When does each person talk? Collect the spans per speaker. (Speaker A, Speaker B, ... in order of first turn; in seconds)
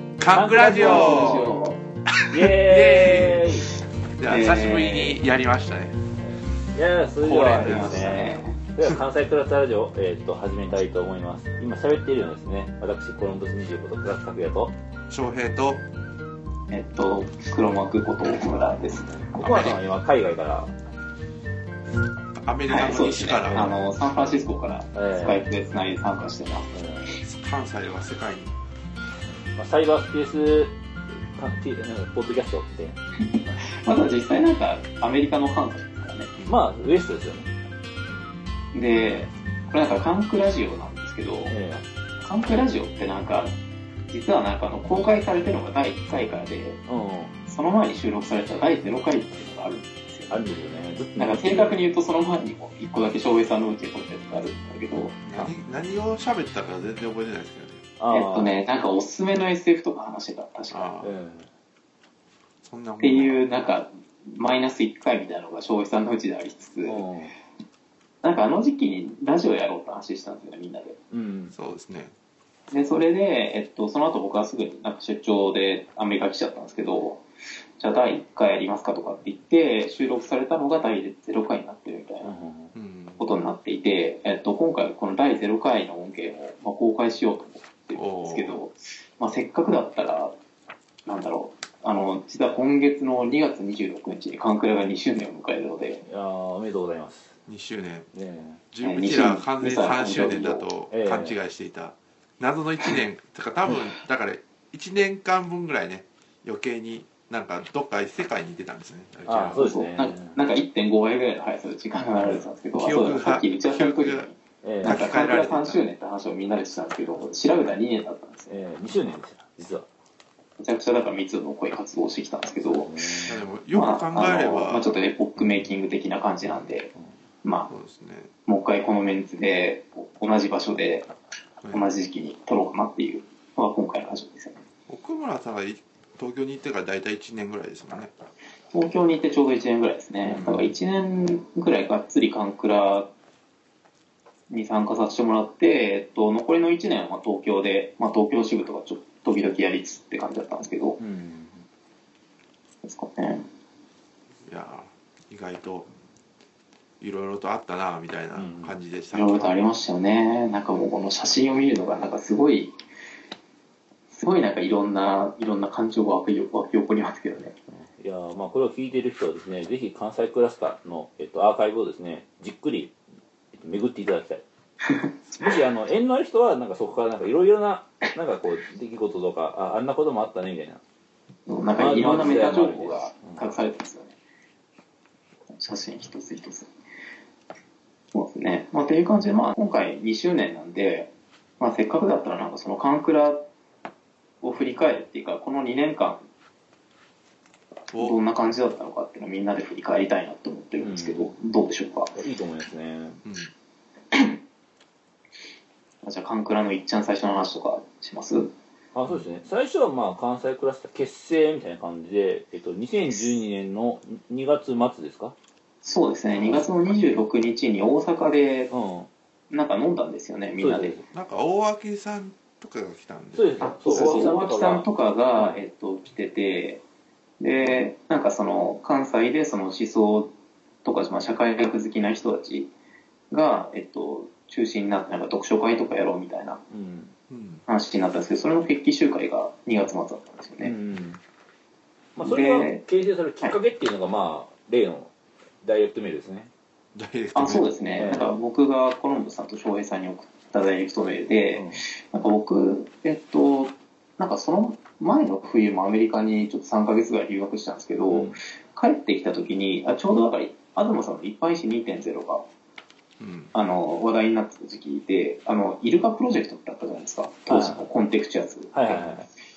Speaker A: 0.2-1.5, 2.1-3.5, 4.2-6.0, 7.2-8.3, 15.1-15.8, 19.4-19.8, 22.4-24.5, 27.2-28.6, 55.3-57.9, 60.7-61.2, 62.6-63.4, 71.5-72.1, 82.8-83.2, 88.0-88.6, 97.5-98.1, 98.7-109.7, 112.7-114.3, 114.8-115.8, 123.3-124.9, 127.7-128.3, 134.9-138.1, 140.2-140.7, 154.5-155.9, 157.0-159.6, 197.9-198.2, 203.2-203.5, 221.1-224.3, 237.3-237.7, 246.9-247.7, 263.2-263.5
Speaker B: 0.3-1.5, 2.3-3.7, 6.2-14.8, 19.2-20.7, 24.9-25.4, 26.7-27.1, 29.5-30.8, 31.3-33.5, 36.5-37.5, 41.5-41.9, 46.9-47.3, 50.3-51.8, 58.0-58.5, 61.0-61.5, 66.9-67.3, 71.1-71.5, 82.2-82.8, 96.0-97.4, 98.1-98.6, 100.9-101.4, 109.3-110.4, 114.6-115.0, 118.5-119.9, 122.6-123.4, 151.0-151.7, 158.3-158.8, 167.7-172.9, 173.5-174.4, 175.3-180.8, 181.8-183.4, 200.8-201.3, 202.2-203.2, 208.9-215.3, 218.7-219.1, 220.6-221.0, 223.3-225.6, 236.7-237.1, 240.6-241.2, 242.2-245.1, 245.6-246.5, 248.0-248.3, 251.5-251.8, 258.1-258.4, 267.5-267.9, 268.7-269.3
Speaker C: 0.6-1.8, 4.3-5.2, 7.3-8.5, 16.7-19.2, 22.7-26.7, 33.7-36.3, 38.7-41.5, 42.2-43.5, 44.1-46.8, 47.5-50.4, 51.2-55.3, 58.1-60.9, 63.0-67.0, 68.2-71.0, 72.7-77.2, 77.8-82.3, 83.2-90.3, 91.1-96.0, 98.8-100.7, 109.6-118.6, 120.6-122.9, 123.8-126.9, 127.4-127.7, 128.5-131.1, 131.7-134.6, 138.7-143.1, 144.5-151.0, 152.8-153.5, 159.1-162.7, 164.1-167.5, 174.9-175.4, 181.5-184.1, 185.5-186.7, 188.1-193.5, 194.4-196.2, 198.0-202.1, 206.0-208.5, 215.8-218.7, 219.5-221.0, 223.8-226.8, 227.4-230.3, 230.8-232.7, 233.3-236.6, 237.7-240.8, 242.2-242.8, 247.3-262.4, 263.5-269.2